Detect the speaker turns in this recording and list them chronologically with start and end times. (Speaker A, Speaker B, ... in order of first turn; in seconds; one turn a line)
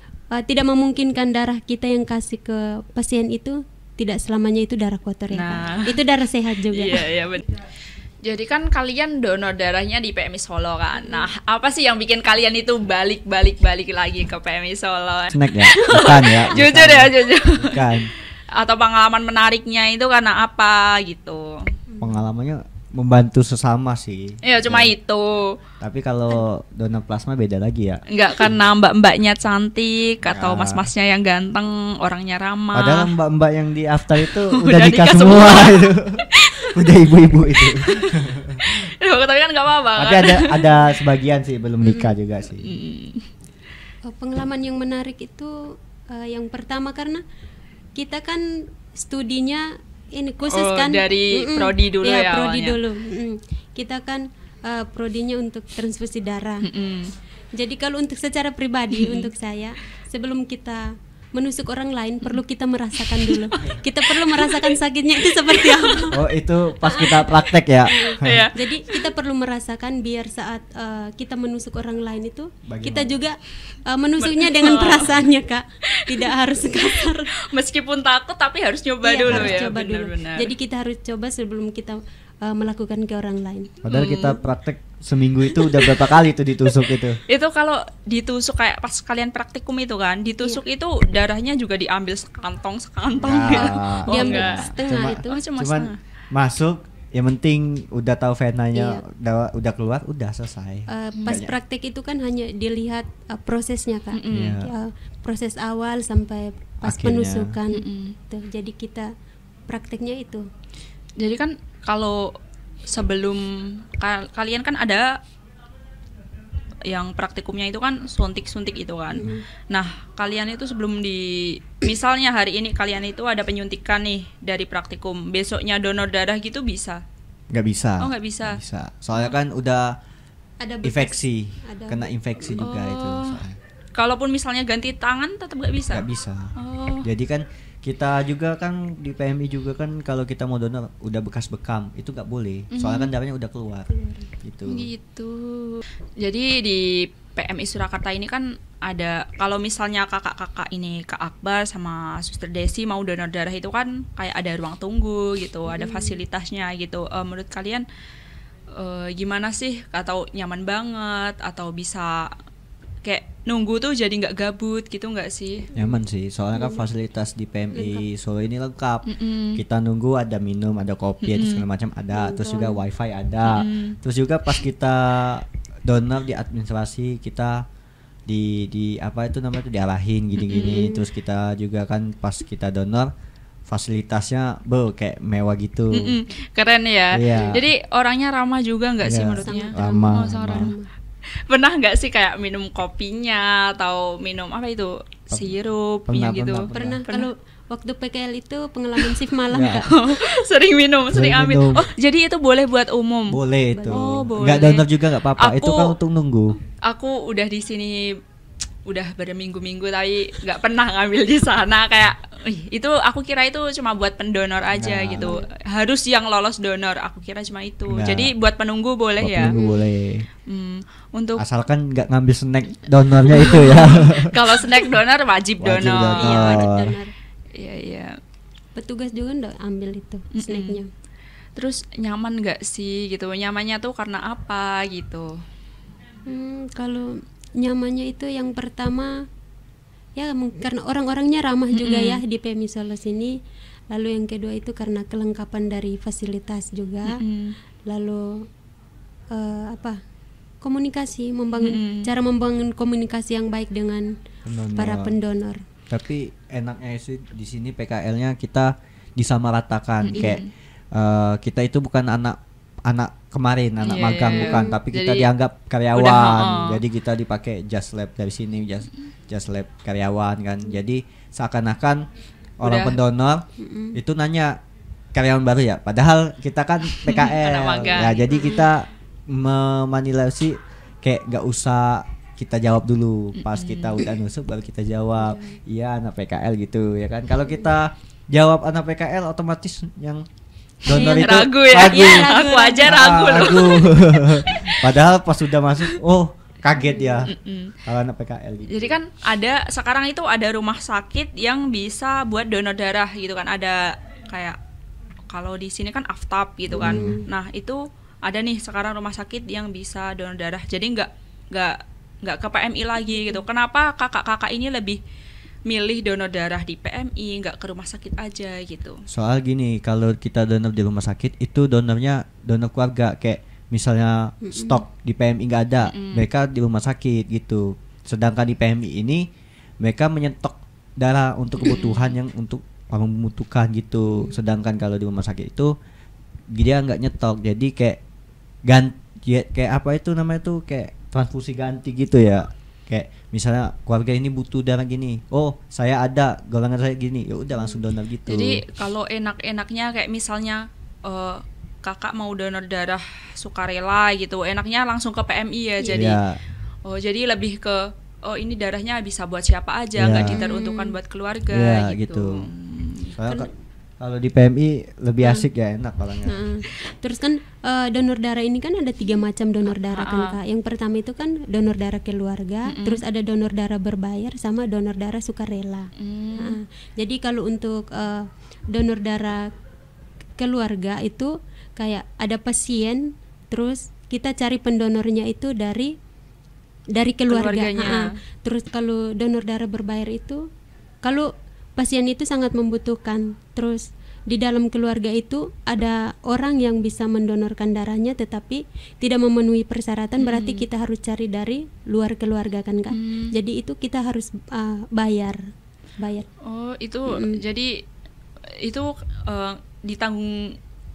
Speaker A: 0.3-7.1
Speaker B: 5.3-6.0
Speaker B: 6.7-7.6
Speaker B: 8.2-17.8
Speaker A: 10.9-11.3
Speaker C: 15.3-18.1
Speaker B: 18.6-21.6
Speaker A: 21.9-22.2
Speaker C: 22.0-24.9
Speaker B: 24.4-25.6
Speaker C: 25.8-28.0
Speaker B: 28.1-33.1
Speaker C: 30.2-30.9
Speaker C: 32.7-38.7
Speaker B: 34.3-36.7
Speaker B: 37.6-40.8
Speaker C: 40.0-42.8
Speaker A: 41.8-42.1
Speaker B: 42.6-43.3
Speaker A: 44.1-45.5
Speaker A: 46.1-47.2
Speaker A: 48.0-48.4
Speaker A: 49.0-49.6
Speaker A: 50.2-56.7
Speaker B: 50.5-52.8
Speaker B: 56.6-57.1
Speaker A: 57.5-60.8
Speaker B: 58.9-59.3
Speaker A: 61.4-66.2
Speaker B: 63.1-63.6
Speaker B: 64.2-64.7
Speaker B: 65.4-66.1
Speaker C: 66.1-68.5
Speaker A: 66.8-77.3
Speaker B: 68.2-69.0
Speaker C: 72.7-73.2
Speaker B: 74.2-75.2
Speaker B: 75.9-80.5
Speaker A: 79.0-83.8
Speaker C: 79.2-79.7
Speaker C: 83.8-87.2
Speaker B: 83.9-84.4
Speaker B: 85.6-86.1
Speaker B: 87.3-94.7
Speaker C: 93.2-101.5
Speaker A: 94.1-95.5
Speaker B: 95.3-96.0
Speaker A: 98.7-99.0
Speaker A: 100.9-109.1
Speaker B: 101.1-101.5
Speaker B: 104.1-104.6
Speaker C: 104.3-104.7
Speaker C: 106.8-107.5
Speaker B: 107.7-108.2
Speaker A: 109.7-110.5
Speaker B: 111.2-112.3
Speaker B: 112.9-115.1
Speaker B: 116.9-127.0
Speaker A: 119.1-119.4
Speaker C: 127.5-129.9
Speaker B: 128.0-128.6
Speaker A: 130.6-132.6
Speaker C: 130.8-133.6
Speaker B: 132.6-133.4
Speaker B: 133.9-136.0
Speaker C: 135.9-143.9
Speaker B: 136.6-137.1
Speaker B: 142.7-143.1
Speaker A: 143.9-144.3
Speaker C: 144.4-144.9
Speaker B: 144.7-157.8
Speaker A: 155.7-156.2
Speaker B: 158.8-162.3
Speaker B: 163.0-165.7
Speaker A: 165.7-166.0
Speaker C: 165.8-177.6
Speaker A: 166.6-166.8
Speaker A: 167.7-168.0
Speaker B: 169.1-169.6
Speaker B: 171.2-171.7
Speaker A: 172.1-172.8
Speaker B: 173.4-174.0
Speaker C: 178.3-183.1
Speaker B: 180.4-181.0
Speaker C: 183.7-186.2
Speaker B: 185.9-190.8
Speaker C: 187.1-187.6
Speaker C: 189.0-190.7
Speaker A: 189.4-190.9
Speaker B: 191.5-197.3
Speaker C: 195.3-195.6
Speaker C: 196.1-197.0
Speaker A: 196.7-199.9
Speaker C: 199.5-199.9
Speaker B: 199.9-203.4
Speaker C: 201.1-201.9
Speaker C: 203.3-206.6
Speaker A: 203.7-204.6
Speaker B: 203.9-206.0
Speaker B: 206.8-208.1
Speaker B: 208.9-219.6
Speaker C: 214.7-215.4
Speaker C: 217.9-218.3
Speaker C: 219.2-220.3
Speaker A: 219.4-219.9
Speaker B: 220.5-221.4
Speaker C: 221.4-224.3
Speaker B: 223.3-226.8
Speaker C: 225.6-227.0
Speaker A: 226.0-227.1
Speaker B: 227.6-228.2
Speaker A: 228.8-230.9
Speaker B: 230.3-230.8
Speaker B: 231.6-235.4
Speaker A: 236.3-239.1
Speaker A: 240.2-243.3
Speaker B: 241.7-242.2
Speaker A: 243.9-247.2
Speaker B: 247.1-247.6
Speaker A: 247.9-248.4
Speaker A: 249.3-250.0
Speaker A: 250.6-254.1
Speaker B: 251.6-252.1
Speaker C: 254.5-255.2
Speaker A: 254.8-255.6
Speaker C: 255.9-272.1
Speaker B: 260.0-260.5
Speaker A: 260.1-260.4
Speaker B: 263.8-265.3
Speaker A: 264.3-264.8
Speaker B: 265.9-266.8
Speaker C: 272.6-274.6
Speaker B: 272.6-273.0
Speaker A: 273.6-274.0
Speaker C: 275.1-290.2
Speaker B: 276.9-278.3
Speaker A: 278.3-278.7
Speaker B: 283.4-284.1
Speaker A: 285.3-285.5
Speaker A: 290.9-293.0
Speaker C: 290.9-299.0
Speaker B: 290.9-295.0
Speaker A: 296.8-297.3
Speaker B: 297.3-297.8
Speaker B: 298.7-304.6
Speaker B: 305.3-315.0
Speaker A: 306.7-307.2
Speaker C: 306.8-307.2
Speaker A: 313.1-313.4
Speaker B: 315.7-319.0
Speaker C: 319.1-329.3
Speaker A: 324.4-324.8
Speaker B: 325.9-326.3
Speaker C: 329.8-335.7
Speaker B: 331.6-332.2
Speaker C: 336.5-338.0
Speaker C: 338.7-348.6
Speaker B: 348.3-356.2
Speaker A: 355.8-356.1
Speaker C: 355.9-356.4
Speaker B: 356.9-363.1
Speaker C: 360.0-360.4
Speaker A: 360.2-361.0
Speaker C: 361.5-362.4
Speaker C: 363.1-366.4
Speaker A: 365.2-365.5
Speaker A: 366.3-379.4
Speaker B: 369.7-370.4
Speaker B: 372.7-373.0
Speaker B: 376.0-376.6
Speaker A: 380.4-385.9
Speaker A: 386.9-390.4
Speaker B: 387.3-388.1
Speaker A: 391.8-405.4
Speaker B: 400.2-400.7
Speaker B: 402.9-403.3
Speaker A: 406.0-406.3
Speaker B: 406.4-407.8
Speaker A: 407.1-407.4
Speaker B: 408.6-410.6